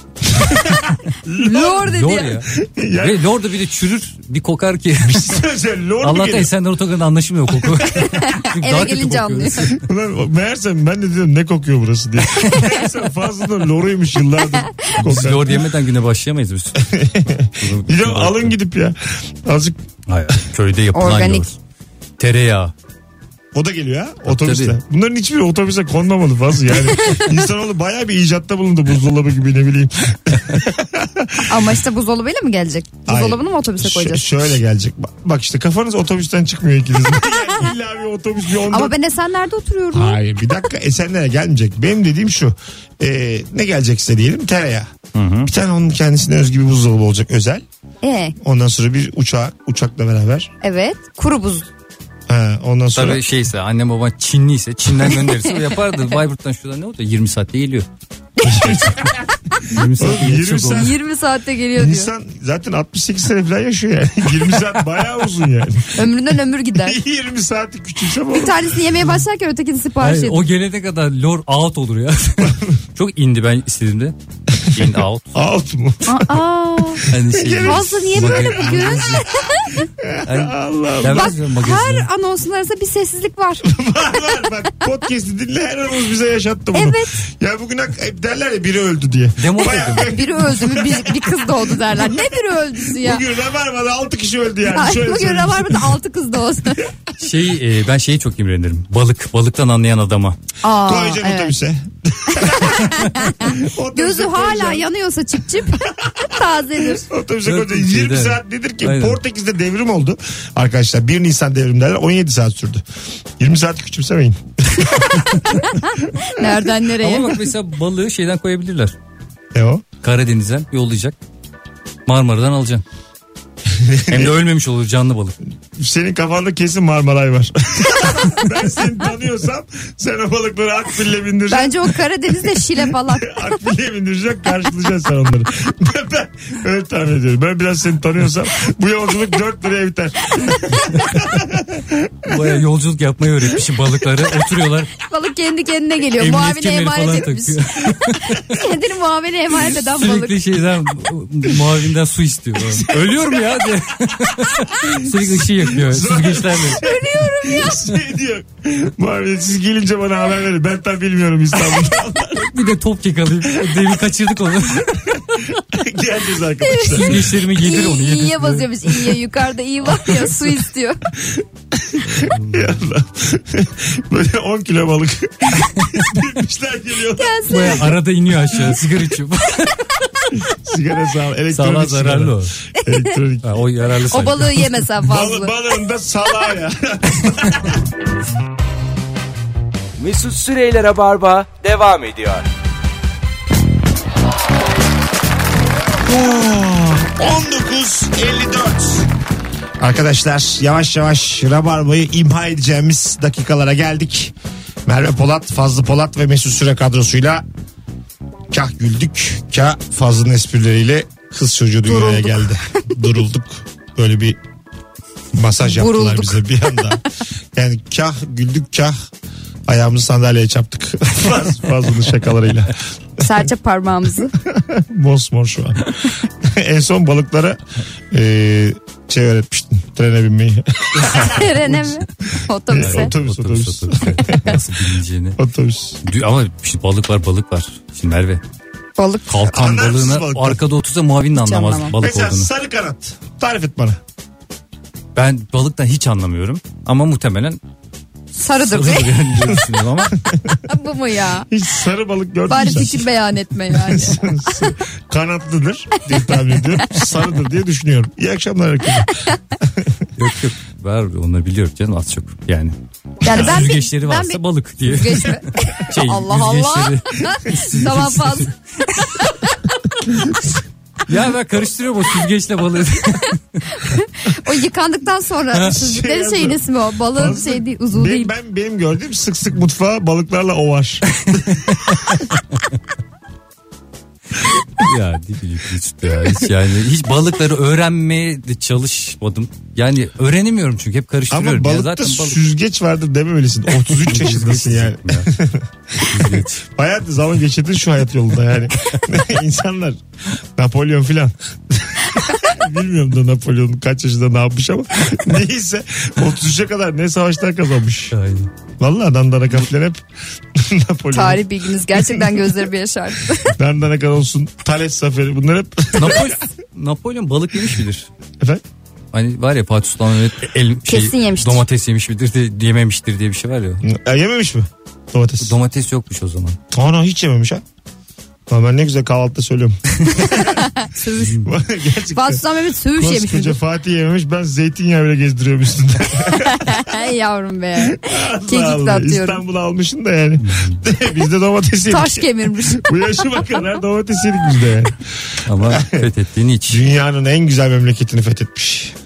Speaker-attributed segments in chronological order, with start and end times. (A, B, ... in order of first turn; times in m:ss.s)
0:00.4-0:01.9 A
0:01.4-0:02.4 B
0:01.8-0:05.4 C
0:02.5-0:03.3 A
0:05.0-0:06.5 A
0:06.0-0:09.8 C
0:07.7-0:08.2 A
0:08.2-0:09.7 B
0:09.8-0:15.6 A
0:12.4-0:12.8 B
0:14.6-0:15.0 B
0:15.0-0:16.9 C
0:16.8-0:19.8 A
0:17.6-0:18.5 C
0:20.1-0:21.5 C
0:20.9-0:21.5 B
0:22.2-0:22.7 C
0:23.5-0:31.7 A
0:24.3-0:24.8 C
0:26.9-0:27.3 B
0:31.4-0:34.3 B
0:33.1-0:38.9 A
0:38.7-0:40.6 B
0:39.9-0:44.9 A
0:45.1-0:45.5 C
0:45.4-0:47.6 A
0:48.0-0:48.4 B
0:48.4-0:50.5 A
0:50.6-0:51.7 B
0:52.3-0:53.2 A
0:53.0-0:57.9 C
0:58.4-0:59.8 B
0:58.4-0:59.0 A
0:58.5-0:59.0 C
0:59.6-1:00.9 C
1:00.0-1:01.0 A
1:00.7-1:02.1 B
1:01.7-1:06.1 A
1:05.9-1:07.0 B
1:06.8-1:08.8 A
1:08.3-1:10.5 B
1:10.0-1:14.2 C
1:12.4-1:12.8 A
1:14.6-1:16.4 A
1:14.7-1:15.4 C
1:16.0-1:17.0 B
1:17.0-1:19.3 A
1:17.1-1:19.2 C
1:17.6-1:19.8 B
1:19.9-1:21.4 A
1:20.2-1:22.1 C
1:21.1-1:23.7 B
1:23.6-1:32.4 A
1:26.7-1:27.2 B
1:29.4-1:30.1 C
1:30.0-1:33.2 B
1:32.9-1:36.0 A
1:34.7-1:36.9 B
1:37.2-1:40.4 C
1:40.6-1:41.5 B
1:40.8-1:44.9 A
1:42.4-1:47.1 B
1:45.9-1:52.8 A
1:47.4-1:49.2 C
1:53.4-1:55.6 A
1:55.6-1:57.4 B
1:57.0-1:58.9 C
1:59.5-1:59.9 A
2:00.0-2:01.2 C
2:02.1-2:02.8 C
2:03.7-2:04.4 A
2:04.1-2:05.4 C
2:05.8-2:11.9 A
2:11.5-2:13.5 B
2:12.8-2:22.4 A
2:20.4-2:20.8 B
2:22.2-2:24.9 C
2:25.0-2:30.4 B
2:26.2-2:28.6 C
2:29.6-2:36.8 C
2:32.6-2:33.7 A
2:34.7-2:42.5 A
2:36.7-2:37.8 B
2:42.3-2:45.6 C
2:43.5-2:43.9 A
2:45.6-2:47.3 A
2:46.6-2:51.0 B
2:46.8-2:49.2 C
2:51.2-2:57.8 A
2:52.0-2:52.8 C
2:55.6-2:56.0 C
2:57.2-2:57.9 B
2:57.5-3:00.4 C
3:00.4-3:03.7 A
3:01.5-3:02.6 C
3:03.4-3:04.8 C
3:04.1-3:05.5 B
3:05.0-3:07.8 A
3:10.0-3:12.5 D
3:16.0-3:19.1 A
3:19.8-3:24.4 A
3:24.9-3:27.4 A
3:28.5-3:34.4 A
3:31.9-3:32.4 B
3:35.3-3:37.0 A
3:35.6-3:37.0 B
3:37.5-3:39.0 A
3:39.7-3:42.8 A
3:43.2-3:44.3 B
3:44.4-3:47.6 A
3:48.1-3:51.8 A
3:51.0-3:51.9 C
3:51.0-3:53.1 B
3:52.7-3:54.6 A
3:52.7-3:55.4 C
3:55.4-3:56.0 A
3:56.0-3:58.4 C
3:59.0-3:59.6 B
3:59.3-4:02.5 C
3:59.5-4:00.6 A
4:01.4-4:01.9 B
4:02.0-4:04.0 A
4:05.2-4:07.6 C
4:08.4-4:09.2 B
4:08.6-4:10.2 C
4:10.1-4:10.6 A
4:10.6-4:11.5 B
4:11.5-4:13.1 A
4:12.5-4:14.7 B
4:13.7-4:20.1 A
4:20.2-4:28.5 C
4:23.2-4:30.3 B
4:31.1-4:33.6 C
4:33.7-4:38.3 B
4:35.6-4:36.6 A
4:37.1-4:41.2 A
4:41.1-4:42.6 C
4:44.8-4:52.4 C
4:51.3-5:00.0 A
4:54.0-4:55.3 C
4:56.0-4:56.6 C
5:00.6-5:08.1 A
5:08.1-5:08.5 C
5:08.8-5:12.5 A
5:11.1-5:13.6 B
5:13.4-5:16.4 A
5:16.0-5:18.1 C
5:19.1-5:23.8 C
5:20.9-5:21.6 B
5:23.8-5:25.6 A
5:25.4-5:26.6 C
5:26.7-5:27.6 A
5:28.5-5:32.4 A
5:30.1-5:31.4 B
5:31.2-5:31.5 C
5:32.1-5:33.6 B
5:33.0-5:37.0 A
5:36.3-5:39.4 B
5:37.8-5:46.1 A
5:40.4-5:40.8 C
5:41.9-5:42.9 B
5:45.4-5:46.8 C
5:46.7-5:49.0 A